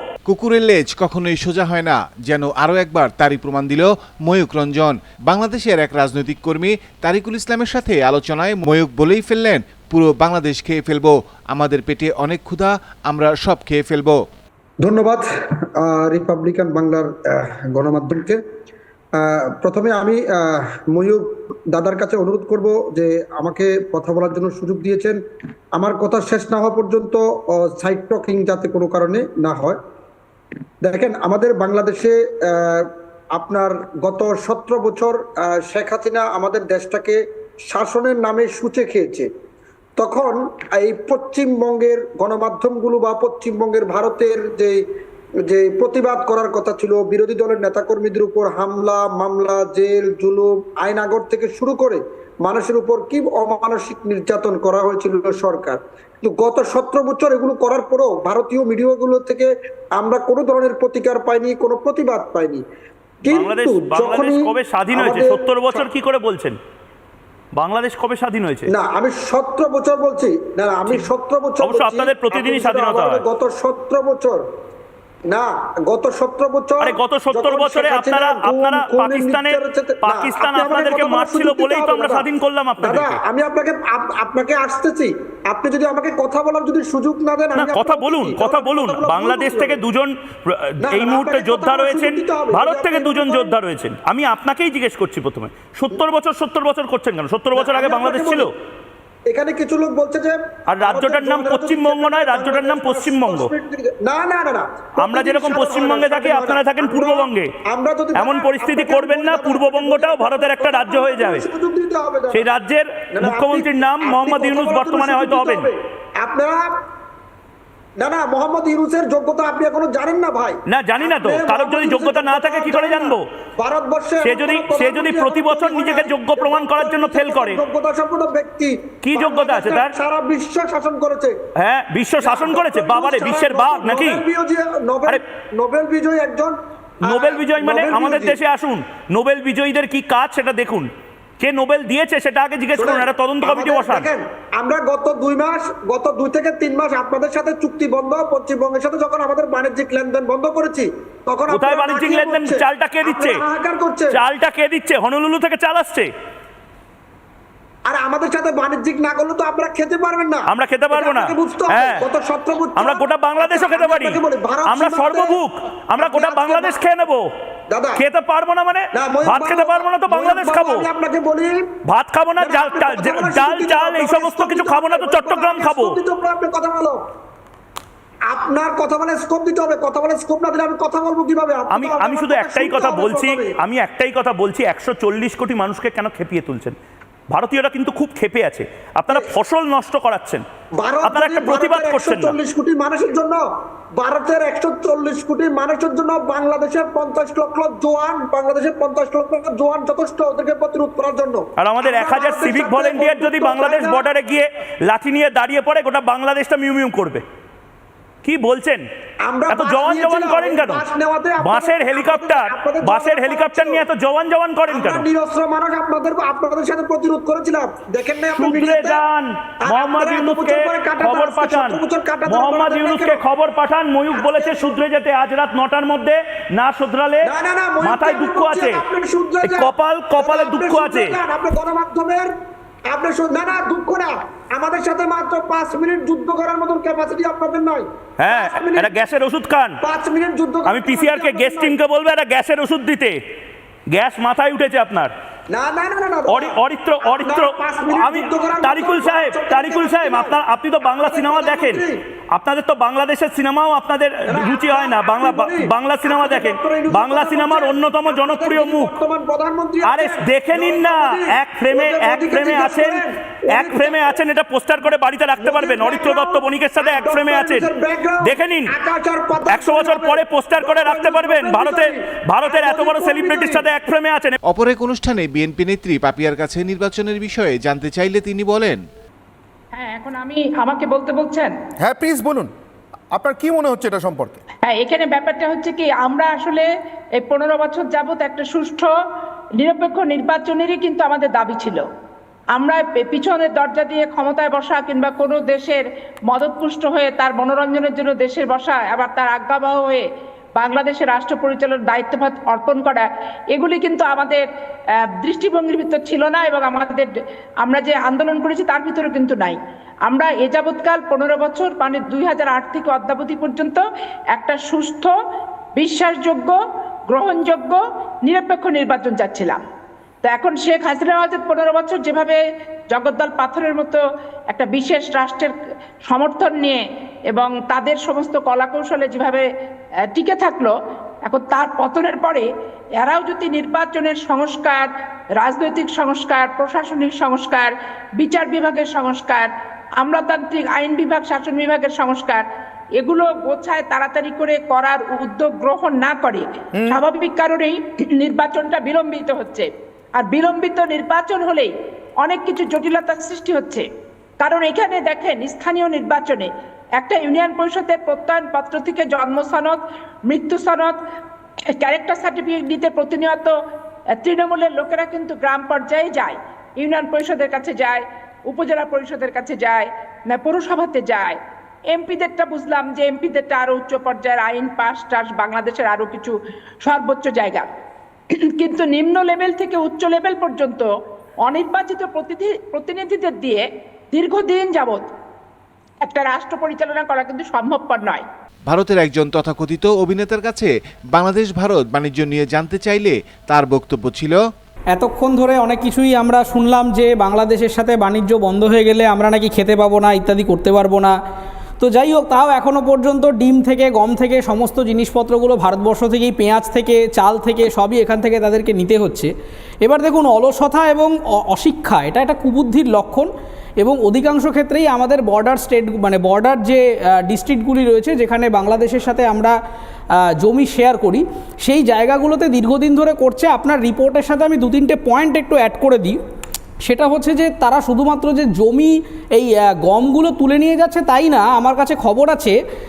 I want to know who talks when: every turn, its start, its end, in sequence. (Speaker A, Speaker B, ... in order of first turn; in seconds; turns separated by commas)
Speaker A: 0.3-14.2, Speaker B: 14.8-15.2, Speaker B: 15.8-18.4, Speaker B: 19.2-25.2, Speaker B: 25.8-29.8, Speaker B: 30.8-39.3, Speaker B: 40.0-44.8, Speaker B: 45.5-62.6, Speaker B: 63.2-65.9, Speaker C: 63.3-66.6, Speaker C: 67.5-68.7, Speaker B: 68.7-74.4, Speaker C: 71.6-73.2, Speaker B: 75.3-82.2, Speaker C: 76.8-83.2, Speaker B: 82.8-89.8, Speaker C: 87.5-98.5, Speaker B: 90.8-93.5, Speaker B: 97.5-98.5, Speaker B: 99.3-112.5, Speaker C: 100.7-103.5, Speaker C: 105.0-107.5, Speaker C: 108.2-111.4, Speaker C: 112.3-115.7, Speaker B: 113.1-116.8, Speaker B: 118.0-131.3, Speaker C: 120.7-123.2, Speaker C: 124.2-127.6, Speaker C: 129.0-129.9, Speaker C: 131.6-134.2, Speaker B: 132.2-136.5, Speaker C: 137.0-140.9, Speaker B: 137.1-138.4, Speaker C: 141.4-144.1, Speaker B: 142.7-154.2, Speaker C: 151.5-153.4, Speaker C: 154.1-156.1, Speaker B: 157.9-165.4, Speaker C: 160.5-162.0, Speaker C: 162.8-167.2, Speaker B: 166.0-166.8, Speaker B: 167.7-168.0, Speaker C: 168.0-170.9, Speaker B: 168.9-171.7, Speaker C: 171.9-176.0, Speaker B: 172.4-177.0, Speaker B: 178.3-183.5, Speaker C: 181.7-186.8, Speaker C: 187.3-190.4, Speaker B: 190.8-193.4, Speaker C: 191.0-192.3, Speaker B: 194.0-204.0, Speaker C: 201.6-207.2, Speaker C: 208.2-208.8, Speaker B: 209.2-213.8, Speaker C: 209.5-210.8, Speaker C: 211.4-215.0, Speaker B: 214.7-219.0, Speaker C: 218.3-227.3, Speaker B: 219.6-223.2, Speaker B: 224.1-224.7, Speaker B: 227.2-232.3, Speaker C: 227.8-228.8, Speaker C: 229.4-231.1, Speaker B: 232.9-239.0, Speaker C: 238.2-239.8, Speaker B: 239.8-241.7, Speaker C: 240.7-243.2, Speaker C: 243.9-245.1, Speaker B: 245.5-250.3, Speaker C: 246.3-251.8, Speaker B: 251.0-252.0, Speaker C: 252.3-258.9, Speaker B: 254.3-264.1, Speaker C: 259.9-267.7, Speaker B: 265.4-273.7, Speaker C: 268.2-268.7, Speaker C: 269.4-274.4, Speaker A: 274.5-278.8, Speaker D: 279.7-281.5, Speaker E: 281.8-282.5, Speaker E: 283.1-284.4, Speaker D: 284.6-286.6, Speaker D: 287.2-288.9, Speaker D: 289.6-291.8, Speaker D: 292.5-300.0, Speaker D: 300.6-304.4, Speaker D: 305.2-307.1, Speaker D: 307.6-313.8, Speaker D: 314.3-315.1, Speaker D: 315.8-316.5, Speaker D: 317.1-319.6, Speaker D: 320.2-322.4, Speaker D: 322.9-324.0, Speaker D: 324.5-325.5, Speaker D: 326.1-329.4, Speaker D: 330.1-330.7, Speaker D: 331.2-332.4, Speaker D: 333.0-334.9, Speaker D: 335.4-339.5, Speaker D: 340.0-342.4, Speaker D: 343.0-351.7, Speaker D: 352.2-353.8, Speaker D: 354.4-360.9, Speaker D: 361.7-363.5, Speaker D: 364.1-371.4, Speaker D: 371.9-376.3, Speaker D: 376.8-377.6, Speaker D: 378.4-380.8, Speaker D: 381.4-385.1, Speaker D: 386.0-388.2, Speaker A: 388.7-394.4, Speaker F: 394.9-401.1, Speaker F: 401.8-409.3, Speaker F: 409.8-419.6, Speaker F: 420.2-426.1, Speaker F: 426.8-432.6